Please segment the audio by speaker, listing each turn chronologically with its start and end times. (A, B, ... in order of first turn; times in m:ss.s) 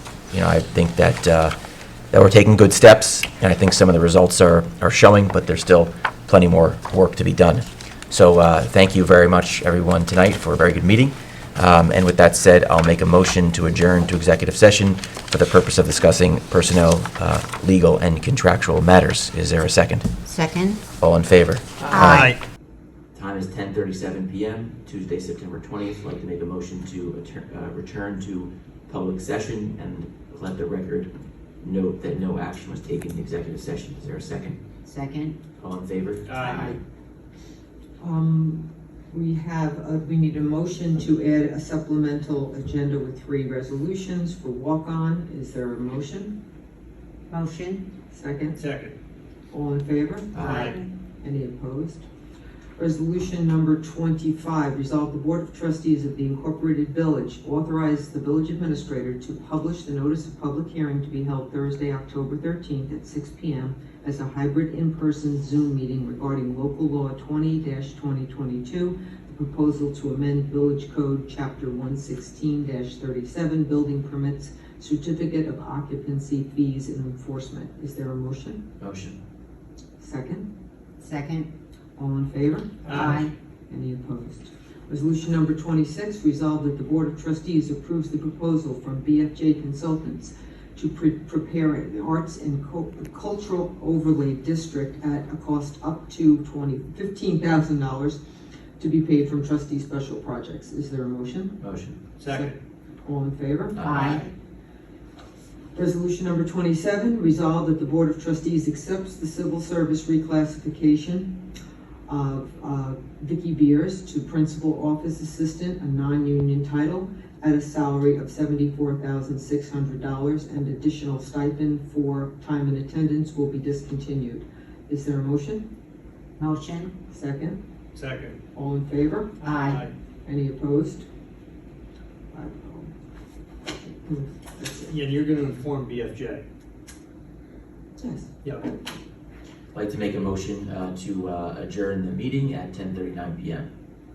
0:00.3-0:01.5 A
0:02.1-0:20.1 A
0:20.3-0:20.8 B
0:21.0-0:22.3 A
0:21.8-0:22.4 C
0:21.9-0:22.4 B
0:23.1-0:34.6 A
0:34.8-0:35.4 B
0:35.6-0:36.8 A
0:36.3-0:36.8 C
0:36.5-0:36.7 B
0:38.0-0:46.4 D
0:47.3-0:47.8 B
0:48.1-0:48.7 D
0:48.6-0:49.0 C
0:49.5-0:52.0 D
0:50.3-0:50.7 A
0:50.4-0:50.8 C
0:52.8-1:18.6 D
1:18.8-1:19.2 A
1:20.0-1:20.5 D
1:21.0-1:21.5 B
1:22.0-1:38.2 D
1:22.9-1:23.2 C
1:22.9-1:23.3 B
1:38.8-1:41.6 D
1:41.6-1:42.0 A
1:42.2-1:42.6 C
1:42.3-1:43.8 D
1:43.7-1:44.3 A
1:43.8-1:44.3 B
1:45.8-1:51.4 D
1:52.1-2:05.7 D
2:06.4-2:06.9 B
2:07.1-2:07.6 D
2:07.9-2:08.4 C
2:08.6-2:09.5 D
2:09.4-2:09.8 B
2:09.5-2:09.9 C
2:10.2-2:11.1 D
2:12.3-2:12.9 D
2:13.8-2:15.0 D
2:14.9-2:16.4 C
2:18.0-2:18.3 D
2:18.4-2:18.7 C
2:19.7-2:23.7 A